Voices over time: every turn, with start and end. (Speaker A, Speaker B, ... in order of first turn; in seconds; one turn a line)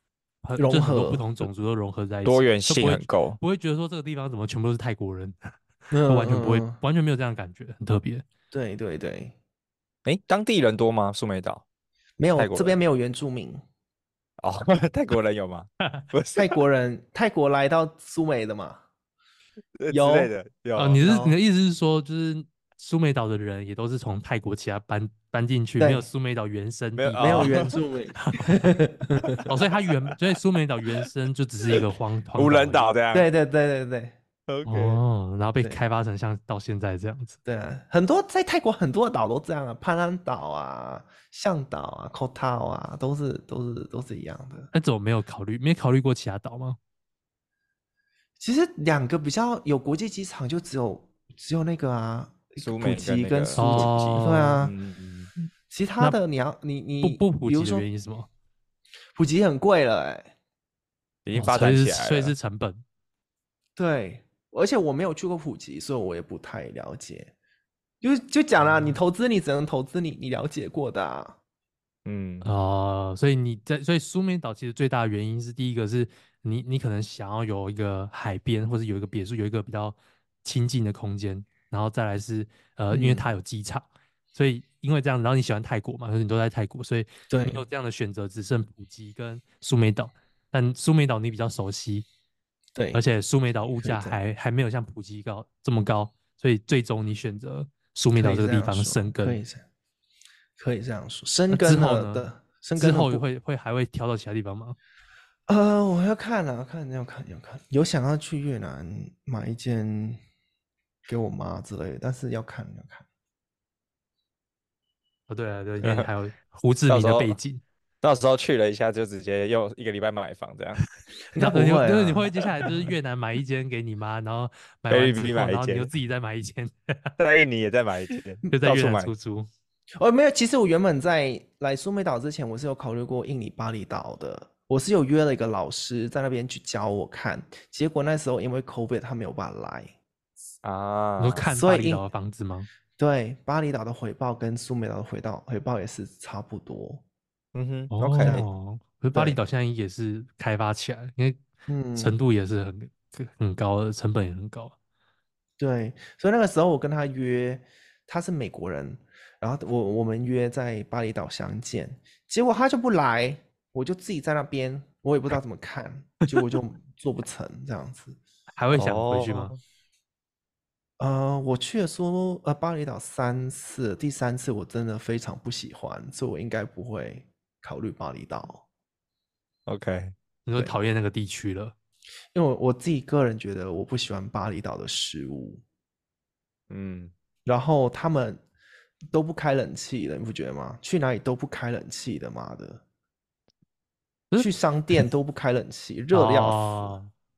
Speaker A: 0.4-5.5
Speaker B: 0.6-1.4
Speaker C: 2.2-3.4
Speaker B: 5.9-6.8
Speaker A: 6.0-8.2
Speaker B: 8.5-9.3
Speaker C: 10.1-11.6
Speaker B: 12.2-13.6
Speaker C: 12.4-12.8
Speaker C: 14.4-16.6
Speaker B: 16.4-18.8
Speaker C: 19.8-21.0
Speaker B: 19.9-20.3
Speaker A: 20.8-28.5
Speaker B: 21.0-21.4
Speaker B: 25.8-26.1
Speaker C: 27.0-27.7
Speaker B: 27.2-29.4
Speaker A: 29.4-32.9
Speaker C: 32.4-33.3
Speaker B: 33.1-34.1
Speaker C: 34.5-35.0
Speaker A: 34.7-37.4
Speaker B: 37.5-44.7
Speaker A: 44.7-46.8
Speaker B: 48.4-54.7
Speaker C: 52.6-55.3
Speaker A: 53.6-54.6
Speaker B: 55.7-57.9
Speaker A: 57.0-58.3
Speaker B: 59.2-60.3
Speaker C: 61.2-62.3
Speaker A: 61.3-62.8
Speaker B: 63.8-67.3
Speaker B: 68.0-71.4
Speaker A: 68.6-69.0
Speaker C: 72.0-72.5
Speaker A: 72.4-92.1
Speaker B: 82.9-83.2
Speaker B: 87.3-87.6
Speaker B: 92.8-93.0
Speaker A: 92.9-99.4
Speaker B: 93.8-94.2
Speaker B: 98.2-99.7
Speaker B: 100.6-103.2
Speaker A: 101.5-104.8
Speaker B: 105.5-110.2
Speaker B: 111.1-113.0
Speaker A: 115.3-117.6
Speaker C: 115.8-116.1
Speaker C: 116.9-117.4
Speaker C: 118.0-120.8
Speaker B: 121.3-122.8
Speaker A: 121.3-127.1
Speaker C: 124.9-125.9
Speaker C: 127.2-129.1
Speaker A: 128.5-129.5
Speaker B: 130.0-139.9
Speaker C: 140.6-141.4
Speaker A: 141.2-142.7
Speaker B: 141.5-142.1
Speaker B: 143.0-147.0
Speaker C: 147.5-148.4
Speaker A: 147.9-151.4
Speaker B: 148.2-148.5
Speaker B: 151.7-152.2
Speaker A: 152.0-154.7
Speaker B: 155.6-168.2
Speaker A: 168.6-169.5
Speaker C: 168.7-169.6
Speaker B: 171.0-178.6
Speaker C: 179.7-180.2
Speaker A: 180.5-181.8
Speaker B: 182.3-185.6
Speaker C: 186.7-187.1
Speaker B: 187.5-188.4
Speaker B: 189.1-192.8
Speaker A: 194.3-195.1
Speaker B: 194.4-197.0
Speaker A: 196.1-197.1